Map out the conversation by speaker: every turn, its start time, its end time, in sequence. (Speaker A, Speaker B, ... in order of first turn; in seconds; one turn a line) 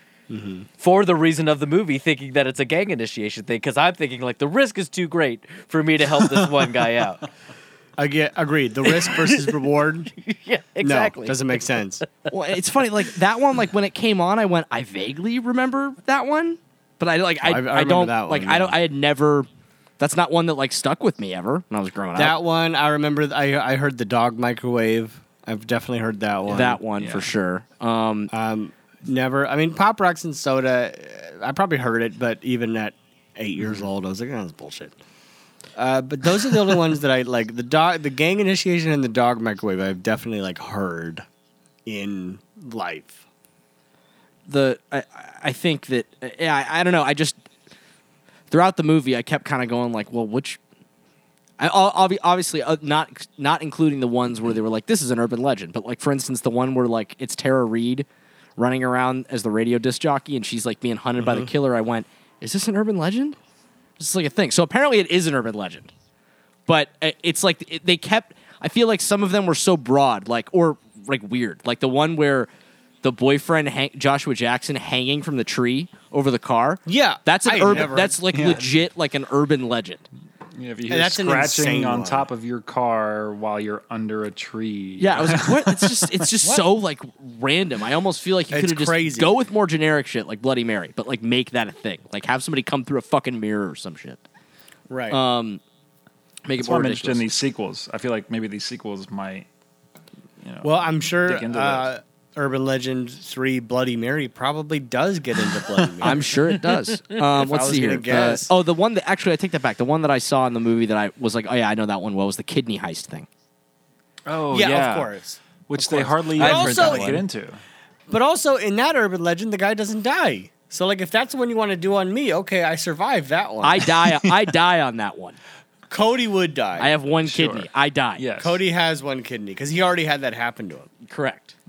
Speaker A: 0.3-0.7
Speaker B: 0.8-7.3
Speaker A: 8.0-10.1
Speaker B: 8.9-9.5
Speaker B: 10.2-11.4
Speaker A: 10.8-12.0
Speaker C: 12.3-19.5
Speaker A: 17.4-18.7
Speaker C: 20.0-22.4
Speaker A: 22.1-26.8
Speaker C: 26.5-28.3
Speaker D: 27.0-27.3
Speaker A: 28.3-34.9
Speaker A: 35.8-41.2
Speaker A: 41.8-43.2
Speaker C: 44.5-47.4
Speaker C: 48.5-50.6
Speaker C: 51.6-58.0
Speaker C: 58.6-63.4
Speaker C: 64.0-65.9
Speaker C: 66.7-72.5
Speaker C: 73.0-80.0
Speaker A: 76.9-78.2
Speaker D: 77.7-78.7
Speaker D: 80.6-86.6
Speaker A: 80.9-82.3
Speaker C: 85.0-94.2
Speaker A: 88.5-89.3
Speaker A: 94.9-95.2
Speaker C: 95.1-95.6
Speaker C: 96.4-97.3
Speaker D: 96.6-99.5
Speaker D: 100.4-101.9
Speaker A: 100.6-106.3
Speaker D: 105.7-106.1
Speaker C: 106.0-113.3
Speaker A: 107.2-108.5
Speaker D: 114.3-115.1
Speaker A: 114.5-117.2
Speaker D: 115.7-117.6
Speaker B: 116.4-117.2
Speaker A: 118.1-123.9
Speaker C: 123.6-125.4
Speaker A: 125.9-126.9
Speaker C: 126.8-128.2
Speaker D: 127.2-128.6
Speaker A: 128.4-131.0
Speaker C: 131.1-131.5